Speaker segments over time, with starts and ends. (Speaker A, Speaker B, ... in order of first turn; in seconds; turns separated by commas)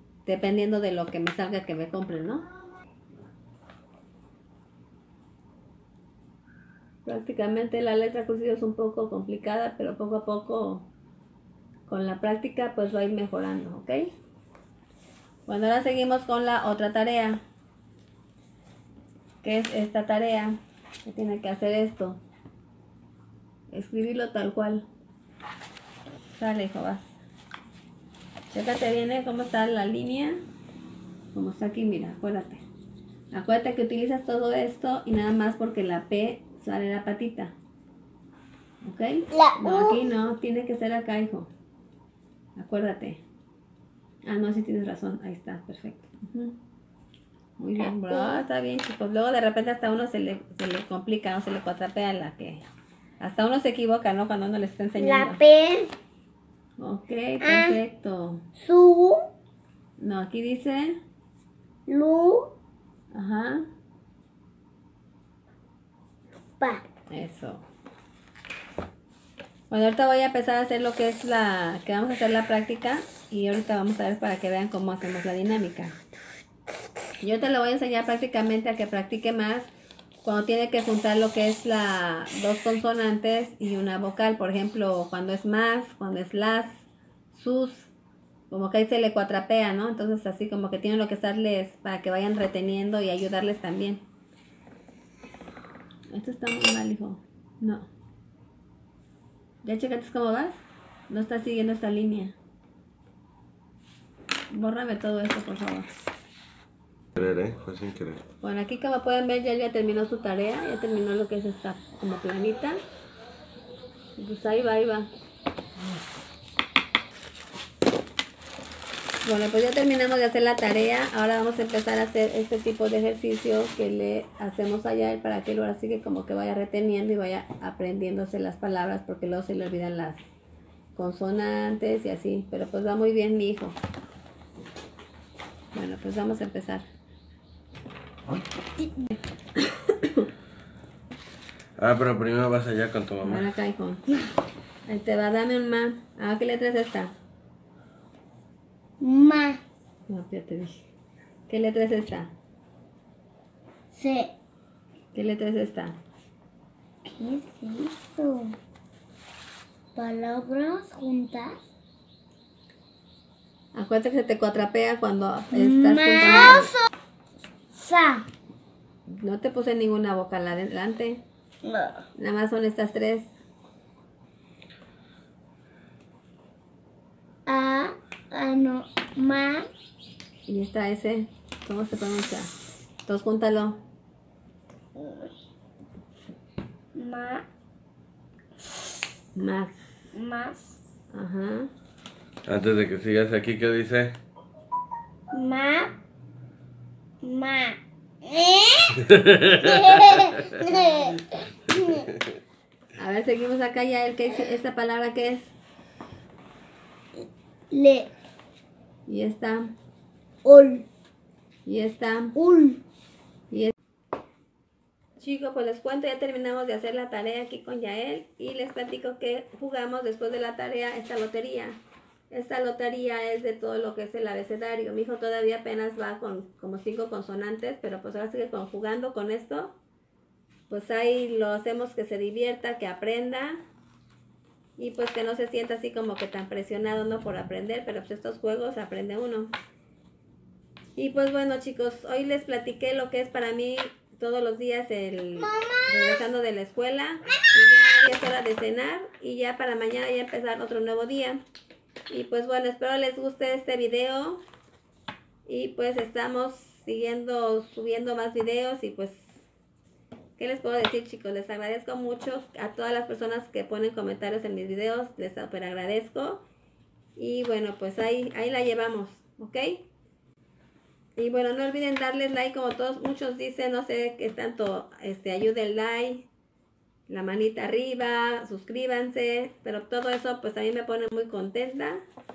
Speaker A: 0.2-2.5, Speaker A: 7.0-10.9, Speaker A: 11.9-14.1, Speaker A: 15.5-17.4, Speaker A: 19.4-22.2, Speaker A: 23.7-24.9, Speaker A: 26.4-27.1, Speaker A: 28.5-30.4, Speaker A: 31.3-32.6, Speaker A: 33.3-37.5, Speaker A: 38.8-41.5, Speaker B: 39.3-40.0, Speaker A: 42.6-43.2, Speaker A: 44.2-46.6, Speaker A: 47.6-52.7, Speaker B: 47.8-48.5, Speaker A: 53.2-55.4, Speaker B: 55.0-55.9, Speaker A: 56.8-58.5, Speaker B: 57.4-57.8, Speaker B: 58.6-59.2, Speaker A: 60.0-61.0, Speaker B: 61.9-62.5, Speaker A: 63.1-63.7, Speaker A: 67.1-67.7, Speaker A: 69.7-76.0, Speaker A: 77.2-79.7, Speaker A: 80.2-87.9, Speaker A: 88.5-94.0, Speaker A: 96.1-97.9, Speaker A: 99.6-100.6, Speaker A: 101.1-102.4, Speaker A: 104.5-105.9, Speaker C: 107.2-108.2, Speaker A: 108.4-112.8, Speaker A: 114.2-115.1, Speaker A: 119.2-130.2, Speaker A: 130.9-133.8, Speaker A: 135.7-136.8, Speaker B: 138.8-139.1, Speaker A: 139.6-140.3, Speaker C: 141.8-143.5, Speaker A: 143.2-144.1, Speaker A: 144.9-147.1, Speaker B: 149.0-149.6, Speaker A: 150.1-150.8, Speaker A: 151.5-152.3, Speaker B: 153.9-154.3, Speaker A: 155.1-156.0, Speaker B: 157.1-158.6, Speaker B: 159.9-161.6, Speaker A: 163.7-166.7, Speaker B: 165.5-166.8, Speaker B: 167.7-168.3, Speaker A: 169.1-171.2, Speaker B: 171.6-172.0, Speaker A: 172.2-173.3, Speaker B: 177.5-179.7, Speaker A: 180.5-182.5, Speaker A: 183.1-183.8, Speaker B: 184.9-185.3, Speaker B: 186.9-187.5, Speaker A: 189.3-189.8, Speaker B: 190.1-190.8, Speaker A: 191.1-191.7, Speaker C: 192.5-194.2, Speaker B: 195.3-195.9, Speaker B: 197.2-202.1, Speaker C: 199.1-199.6, Speaker A: 200.7-201.2, Speaker A: 203.0-205.5, Speaker B: 207.2-208.1, Speaker A: 209.1-209.7, Speaker B: 210.4-210.9, Speaker A: 211.7-212.4, Speaker B: 212.3-212.8, Speaker A: 215.2-221.8, Speaker A: 222.3-229.8, Speaker A: 230.7-233.6, Speaker A: 234.8-239.5, Speaker A: 241.0-251.4, Speaker B: 245.4-246.2, Speaker B: 247.5-248.1, Speaker A: 252.1-254.4, Speaker A: 255.5-259.4, Speaker A: 260.4-266.4, Speaker A: 267.2-269.9, Speaker A: 271.2-276.3, Speaker A: 277.1-282.0